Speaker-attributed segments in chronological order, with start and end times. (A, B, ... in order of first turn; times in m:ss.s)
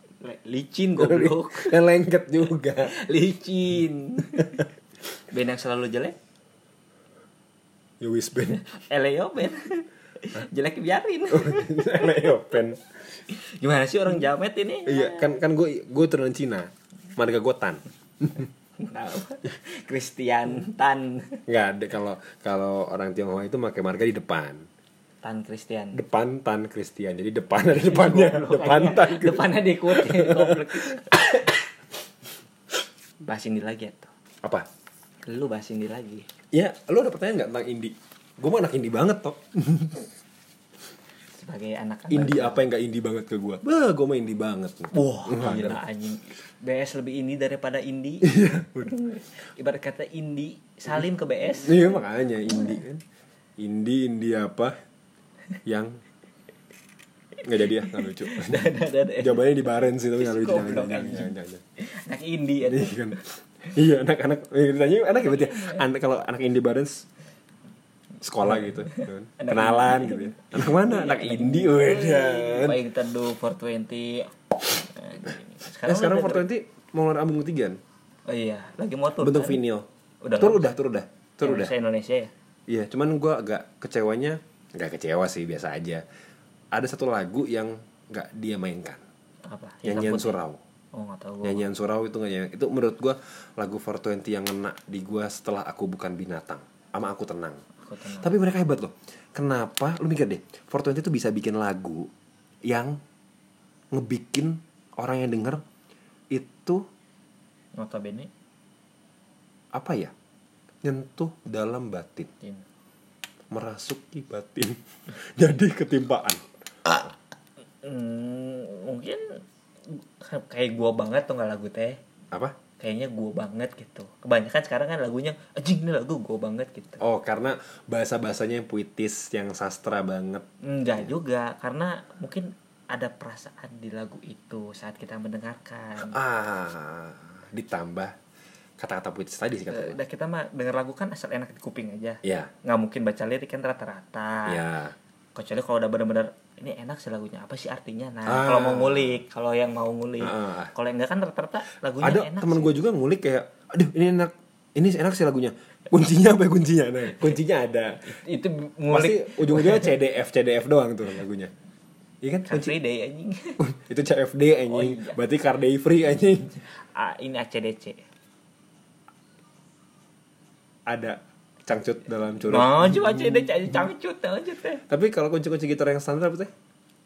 0:00.2-0:01.8 A
0:01.0-0:03.0 B
0:02.8-0:04.7 A
0:05.3-0:06.2 A
0:08.0-0:08.6 B
0:08.5-0:12.6 A
0:11.3-0:12.8 B
0:13.3-0:15.3 A
0:14.8-0:18.5 B
0:18.8-0:21.4 A
0:21.5-0:24.7 B
0:25.2-0:26.0 A
0:25.9-0:31.4 B
0:27.7-0:31.6 A
0:33.2-0:34.1 A
0:35.2-0:36.3 A
0:36.5-0:40.0 B
0:41.3-0:42.6 A
0:42.1-0:45.8 B
0:44.9-0:48.3 A
0:48.2-0:49.0 B
0:48.8-0:52.8 A
0:51.5-0:53.0 B
0:53.6-0:54.8 B
0:55.6-0:56.0 B
0:57.4-1:01.6 B
0:57.8-0:59.5 A
1:00.2-1:03.2 A
1:02.6-1:07.0 B
1:05.2-1:05.8 A
1:08.2-1:12.8 B
1:08.4-1:16.4 A
1:15.8-1:17.8 B
1:18.2-1:19.6 A
1:19.2-1:21.7 B
1:20.2-1:20.8 A
1:21.4-1:22.3 A
1:22.7-1:26.0 B
1:26.7-1:29.0 B
1:29.4-1:30.4 A
1:29.8-1:30.6 B
1:30.9-1:31.6 A
1:31.4-1:37.6 B
1:37.8-1:38.3 A
1:38.2-1:42.1 B
1:42.7-1:43.0 B
1:43.9-1:45.6 B
1:46.3-1:46.8 B
1:47.8-1:48.3 A
1:49.7-1:50.1 B
1:50.8-1:52.3 B
1:53.5-1:57.1 B
1:57.8-2:02.0 A
2:02.8-2:07.0 A
2:07.0-2:10.4 B
2:10.6-2:16.2 A
2:16.0-2:18.1 B
2:18.8-2:20.0 B
2:19.7-2:24.6 A
2:22.2-2:22.5 B
2:24.4-2:24.9 B
2:25.3-2:32.8 A
2:28.2-2:29.2 B
2:30.2-2:30.7 B
2:32.0-2:38.2 B
2:38.0-2:39.9 A
2:38.9-2:41.5 B
2:42.2-2:42.8 B
2:42.5-2:43.6 A
2:43.6-2:46.6 B
2:44.7-2:45.2 A
2:46.6-2:48.0 A
2:50.9-2:53.8 B
2:52.5-2:54.8 A
2:54.9-2:56.5 B